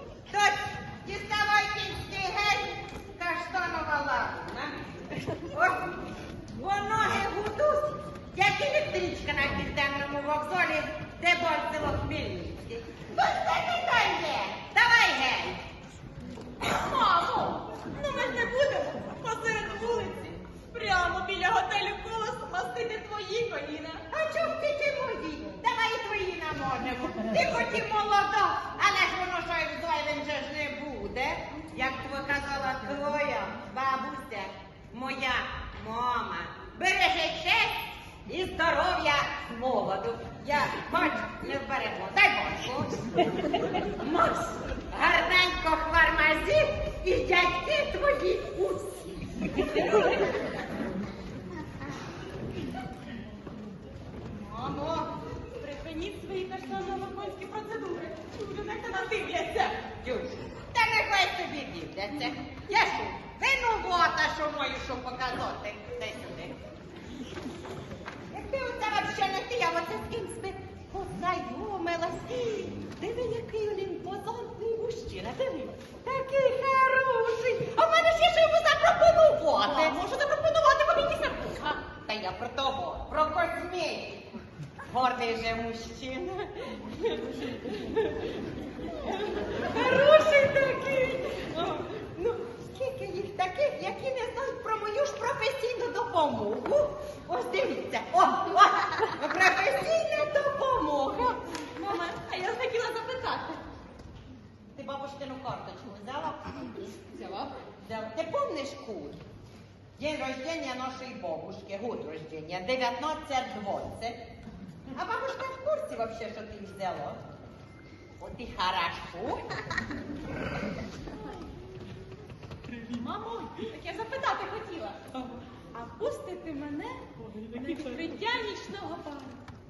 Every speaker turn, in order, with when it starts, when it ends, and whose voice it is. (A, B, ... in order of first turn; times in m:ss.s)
0:00.3-0:05.9 A
0:06.5-0:15.6 A
0:16.6-0:17.8 A
0:17.7-0:24.0 B
0:24.1-0:43.0 A
0:43.9-0:50.3 A
0:54.4-0:55.1 A
0:55.3-0:59.9 B
0:59.8-1:06.6 A
1:08.3-1:20.0 A
1:19.8-1:21.8 B
1:21.8-1:24.3 A
1:24.8-1:28.1 A
1:28.9-1:41.8 A
1:41.7-1:43.6 B
1:44.8-1:46.8 A
1:47.0-1:47.5 B
1:47.8-1:49.2 A
1:50.0-1:54.2 A
1:54.9-1:57.2 A
1:58.2-1:59.6 A
2:02.8-2:09.4 B